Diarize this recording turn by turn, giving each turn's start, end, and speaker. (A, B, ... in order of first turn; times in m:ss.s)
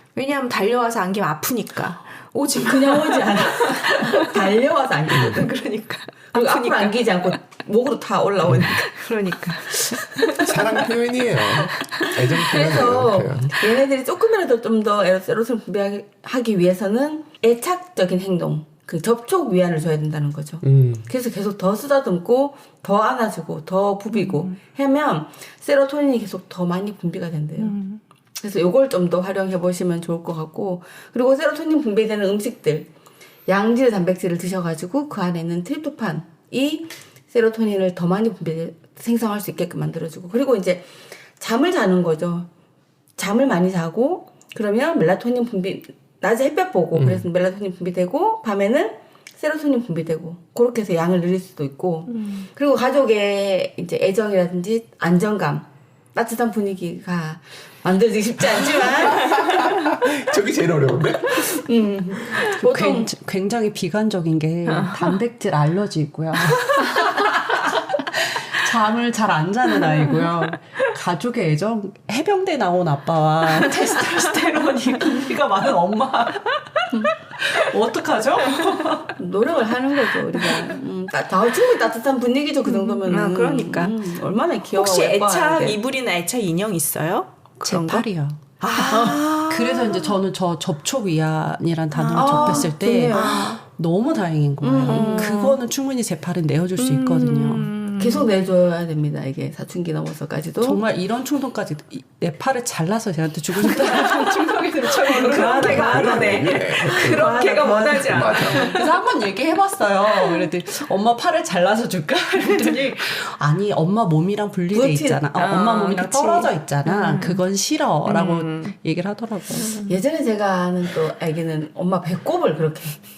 0:00.2-0:04.6 A
0:02.5-0:05.5 B
0:05.1-0:07.4 A
0:06.3-0:09.0 B
0:08.4-0:08.7 C
0:08.8-0:10.9 A
0:09.7-0:10.5 B
0:10.4-0:13.6 C
0:11.5-0:12.1 A
0:12.0-0:27.8 B
0:20.6-0:21.1 C
0:24.1-0:24.5 A
0:27.6-0:28.0 A
0:28.4-0:32.9 B
0:33.5-0:40.9 B
0:41.4-0:42.5 B
0:43.2-0:59.7 B
0:47.0-0:47.3 C
0:52.2-0:52.5 A
0:58.6-1:01.7 C
1:01.3-1:03.1 B
1:02.6-1:19.1 D
1:19.1-1:25.8 B
1:22.7-1:24.0 A
1:24.8-1:28.1 A
1:27.6-1:37.7 D
1:28.6-1:30.2 A
1:31.9-1:33.6 A
1:32.1-1:33.5 B
1:34.6-1:35.4 B
1:34.8-1:35.6 A
1:36.8-1:38.3 A
1:38.0-1:40.8 B
1:40.6-1:59.9 D
1:43.7-1:49.0 A
1:45.5-1:48.8 C
1:52.4-1:52.8 A
1:54.7-1:55.2 B
1:55.3-1:57.4 A
1:58.0-1:58.7 A
1:59.8-2:03.0 B